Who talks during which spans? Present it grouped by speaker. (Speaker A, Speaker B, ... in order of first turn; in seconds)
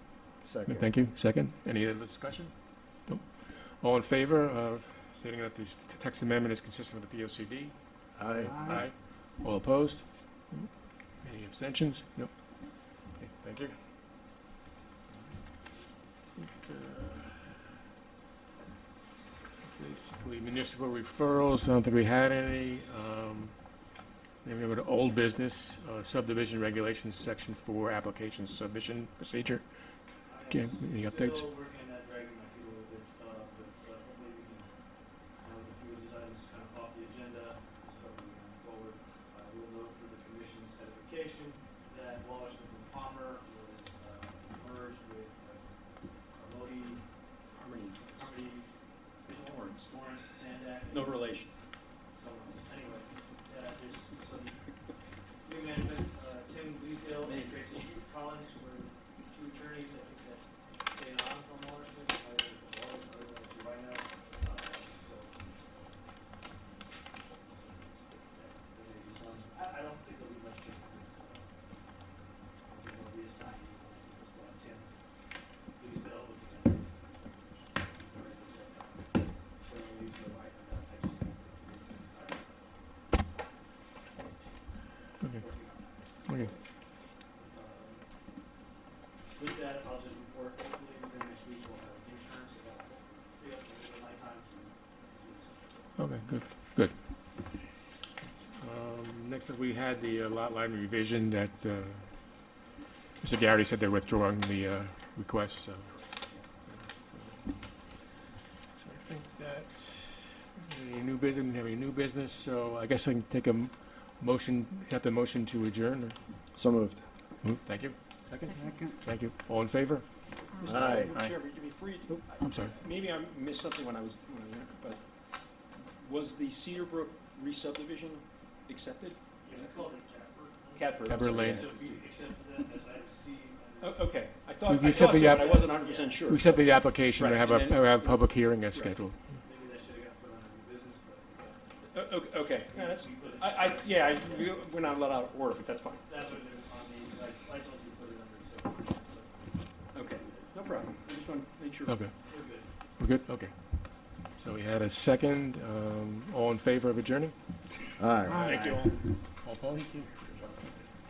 Speaker A: 0.4-0.9, 8.2-8.8, 116.5-117.0, 118.5-118.9, 120.6-121.1, 157.9-158.8
Speaker B: 0.7-2.5, 3.0-13.8, 16.4-17.6, 19.6-23.6, 24.4-29.7, 30.5-31.5, 96.0-96.9, 98.6-102.0, 103.2-106.0, 107.1-107.4, 108.8-116.2, 117.4-118.0, 119.0-120.0, 122.4-122.7, 131.1-131.7, 134.7-135.6, 136.2-139.2, 151.9-152.1, 153.0-157.3, 159.4-160.0
Speaker C: 30.2-34.8, 35.3-47.1, 48.1-48.7, 49.8-51.4, 52.1-65.9, 67.1-72.0, 72.6-75.0, 75.8-86.6, 87.3-88.0, 89.3-96.1, 129.4-134.1, 134.8-136.4, 139.4-141.9, 142.7-145.3, 146.0-150.5, 152.1-152.7
Speaker D: 47.5-48.4, 49.2-50.1, 50.9-51.5, 57.1-57.9, 120.5-125.0, 125.7-129.8, 130.8-132.0, 133.8-139.0, 141.9-146.0, 149.9-152.1, 158.3-159.1, 159.7-160.8